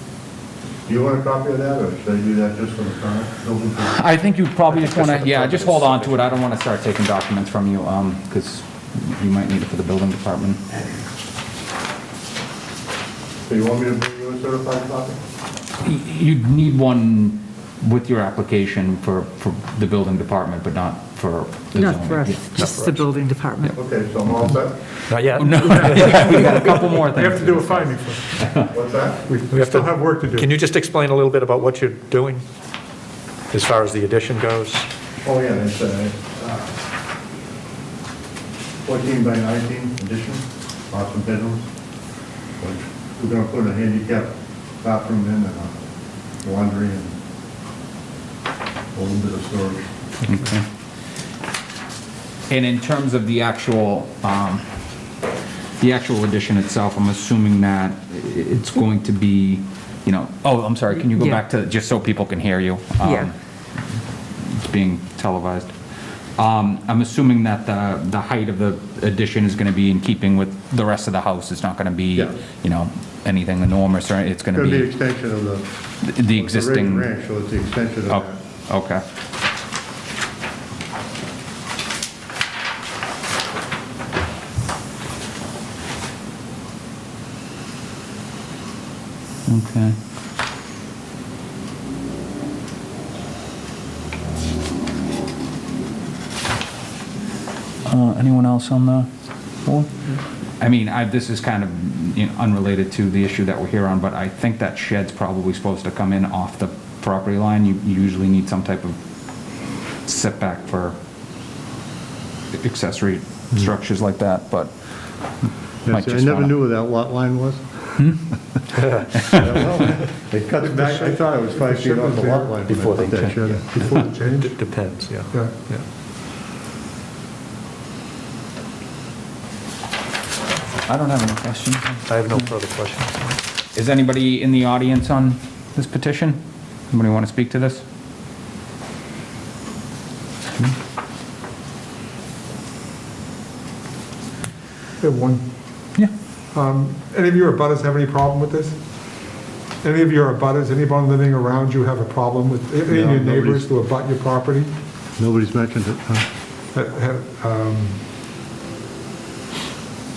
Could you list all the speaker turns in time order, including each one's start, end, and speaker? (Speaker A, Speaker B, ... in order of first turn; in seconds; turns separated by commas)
Speaker A: 0.9-4.2, Speaker B: 3.9-10.6, Speaker A: 4.7-6.3, Speaker A: 13.4-15.2, Speaker B: 15.8-22.9, Speaker C: 21.8-23.8, Speaker D: 22.6-23.0, Speaker A: 23.7-24.8, Speaker D: 25.1-26.9, Speaker B: 25.3-28.7, Speaker E: 27.0-28.5, Speaker A: 28.7-29.2, Speaker E: 29.2-30.5, Speaker D: 29.5-32.4, Speaker D: 33.5-34.9, Speaker A: 35.2-36.7, Speaker A: 38.8-41.7, Speaker A: 42.6-45.8, Speaker A: 46.4-47.1, Speaker A: 48.9-49.9, Speaker B: 50.2-50.7, Speaker B: 52.5-54.6, Speaker B: 55.8-63.3, Speaker C: 61.1-61.4, Speaker C: 63.0-63.3, Speaker B: 64.4-65.8, Speaker B: 66.4-74.9, Speaker A: 74.5-78.4, Speaker B: 76.0-77.1, Speaker B: 78.1-79.0, Speaker B: 89.5-90.0, Speaker B: 97.8-99.1, Speaker B: 99.6-109.0, Speaker B: 110.0-111.0, Speaker B: 112.5-114.7, Speaker A: 115.8-118.0, Speaker B: 115.9-116.6, Speaker B: 118.0-118.3, Speaker D: 118.7-119.7, Speaker B: 119.1-119.5, Speaker A: 119.3-123.6, Speaker E: 120.9-122.5, Speaker D: 122.7-125.8, Speaker E: 123.6-124.6, Speaker E: 125.3-125.6, Speaker B: 130.9-132.5, Speaker D: 132.1-133.4, Speaker B: 133.7-137.8, Speaker E: 145.0-145.5, Speaker E: 146.5-148.8, Speaker E: 149.8-154.7, Speaker A: 152.8-153.7, Speaker A: 155.2-156.2, Speaker E: 156.7-158.0